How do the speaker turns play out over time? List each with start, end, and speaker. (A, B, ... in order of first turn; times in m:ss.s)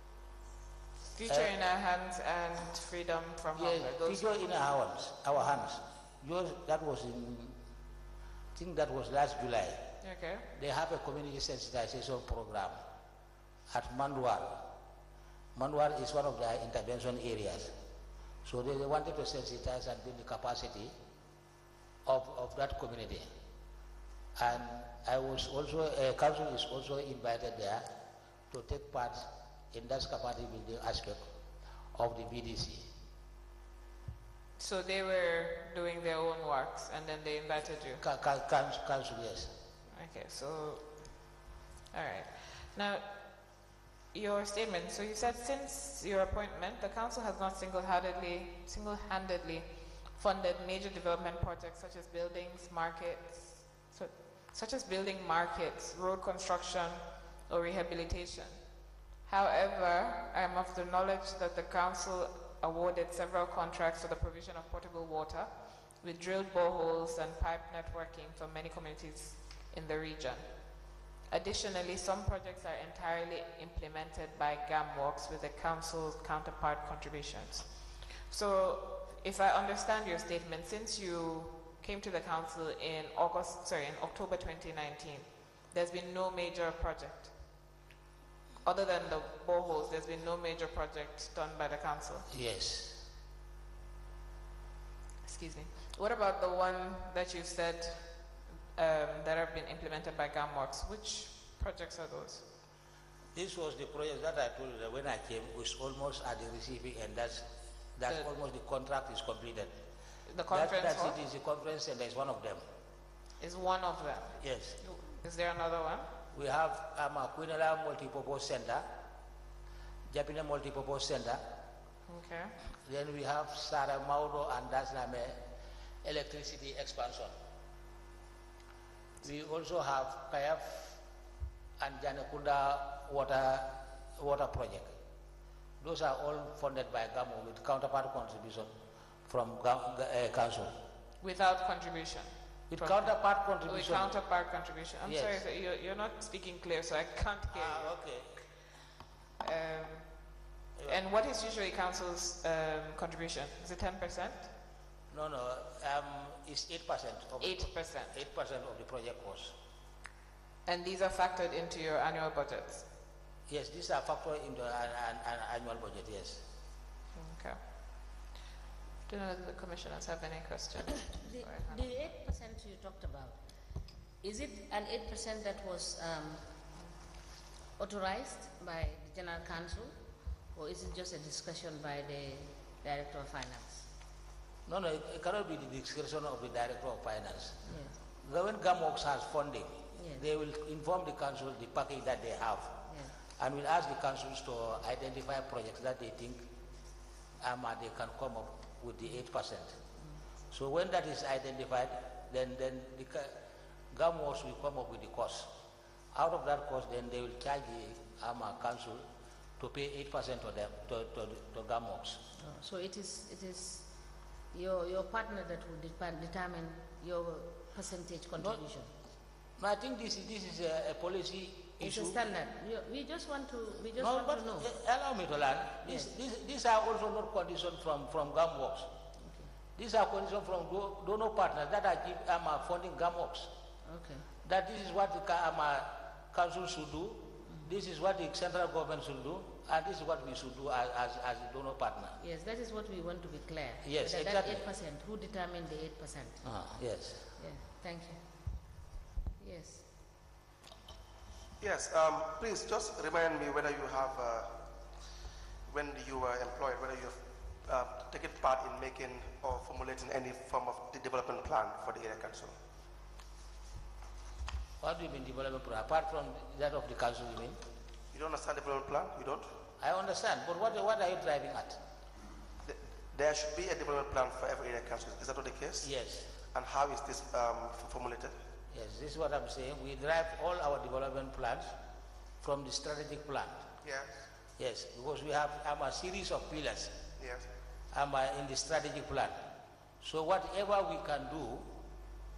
0:01.1-0:04.4 A
0:03.6-0:07.6 B
0:08.5-0:09.8 B
0:10.0-0:10.4 A
0:10.5-0:12.8 B
0:13.7-0:14.6 B
0:15.5-0:17.7 B
0:18.4-0:20.9 B
0:22.0-0:23.3 B
0:24.4-0:27.9 B
0:28.5-0:31.2 B
0:31.9-0:32.9 B
0:34.6-0:38.0 A
0:38.0-0:39.5 B
0:39.9-1:27.4 A
1:28.6-1:32.3 A
1:32.3-1:33.0 B
1:35.2-1:42.4 A
1:43.3-1:49.8 B
1:50.3-1:51.2 A
1:50.5-1:52.6 B
1:53.4-1:56.1 A
1:54.4-1:54.8 B
1:56.3-1:58.9 B
2:00.1-2:01.4 B
2:02.1-2:02.5 A
2:02.8-2:05.4 B
2:06.0-2:07.3 B
2:09.2-2:11.0 B
2:11.8-2:14.9 B
2:15.8-2:18.7 B
2:19.2-2:20.7 B
2:21.2-2:28.0 A
2:22.7-2:24.1 B
2:25.0-2:25.4 B
2:27.5-2:28.4 B
2:29.4-2:34.5 A
2:35.1-2:39.5 B
2:37.4-2:38.1 A
2:40.6-2:42.8 A
2:43.5-2:46.4 B
2:47.1-2:47.6 A
2:49.1-2:51.9 A
2:51.2-2:53.4 C
2:54.2-2:56.5 C
2:57.8-2:59.9 C
3:00.5-3:03.9 C
3:04.6-3:12.9 B
3:07.7-3:07.9 C
3:09.9-3:10.2 C
3:13.4-3:16.4 B
3:17.4-3:19.8 B
3:20.5-3:23.4 B
3:23.9-3:25.5 B
3:26.1-3:29.0 B
3:29.6-3:32.2 B
3:32.4-3:33.9 C
3:34.5-3:38.9 C
3:39.6-3:42.2 B
3:41.8-3:44.7 C
3:44.0-3:48.9 B
3:45.8-3:46.1 C
3:49.2-3:49.5 C
3:49.8-3:53.5 B
3:53.9-3:54.3 C
3:54.4-4:02.2 B
4:02.2-4:06.4 C
4:03.8-4:04.6 B
4:06.4-4:07.3 B
4:07.4-4:08.2 C
4:09.4-4:09.8 C
4:11.6-4:14.5 D
4:15.7-4:22.5 D
4:24.8-4:27.6 B
4:28.1-4:29.5 D
4:29.8-4:31.8 B
4:32.6-4:35.9 D
4:35.8-4:36.3 B
4:36.5-4:38.3 D
4:38.7-4:41.7 B
4:42.4-4:43.6 B
4:43.8-4:44.1 D
4:44.6-4:47.0 B
4:47.2-4:47.5 D
4:47.9-4:49.4 B
4:50.0-4:51.7 B